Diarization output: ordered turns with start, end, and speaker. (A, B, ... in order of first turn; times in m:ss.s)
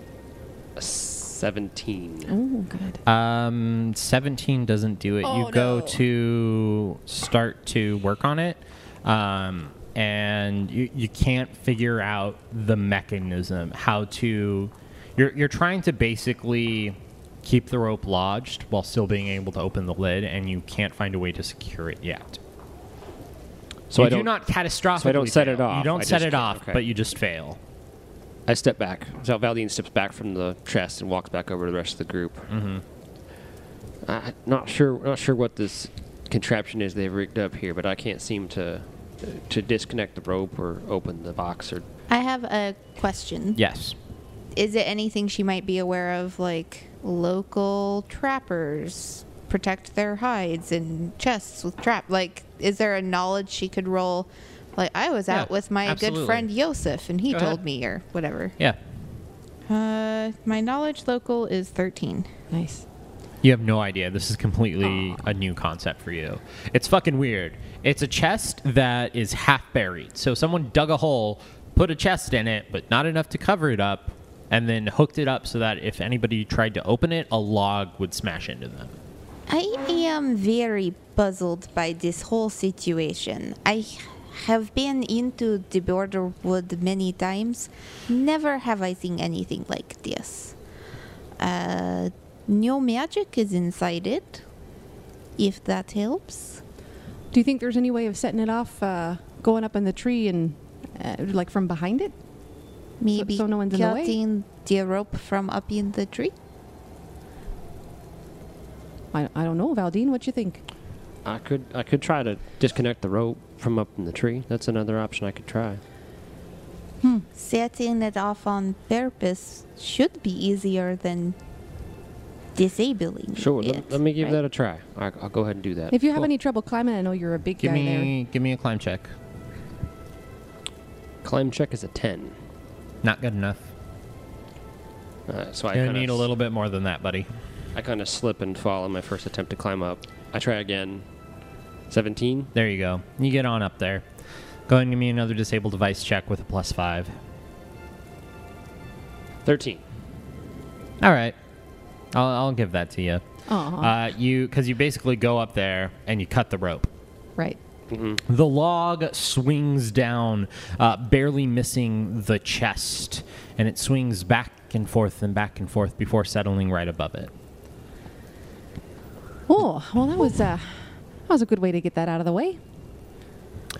0:00.8-0:02.3 A
0:02.3-0:03.0 B
0:03.0-0:22.4 C
0:05.2-0:06.0 B
0:23.9-0:24.3 A
0:23.9-0:27.6 C
0:24.9-0:26.8 A
0:28.4-0:32.5 A
0:32.5-0:32.8 C
0:34.0-0:41.8 A
0:42.1-0:43.6 D
0:43.6-0:44.0 C
0:44.5-0:58.5 D
0:55.3-0:56.5 C
0:57.3-0:57.6 C
0:59.7-1:02.3 D
1:02.5-1:02.8 B
1:03.4-1:19.0 C
1:19.5-1:30.6 D
1:31.4-1:34.4 D
1:35.4-1:36.6 D
1:37.3-1:42.1 B
1:43.0-1:46.3 D
1:43.1-1:44.2 B
1:49.1-1:50.6 B
1:51.2-1:55.8 A
1:57.3-2:01.4 D
2:02.5-2:04.4 D
2:03.3-2:06.3 A
2:05.9-2:08.1 B
2:07.6-2:09.1 C
2:11.2-2:12.4 A
2:13.0-2:13.7 C
2:15.3-2:16.3 A
2:15.7-2:17.3 C
2:17.7-2:21.0 A
2:21.9-2:22.5 A
2:22.5-2:24.0 C
2:24.7-2:27.1 C
2:29.4-2:29.8 A
2:31.0-2:31.3 C
2:32.1-2:33.2 C
2:33.5-2:33.9 B
2:33.8-2:36.9 C
2:37.9-2:38.2 A
2:38.3-2:47.3 C
2:49.5-2:52.6 B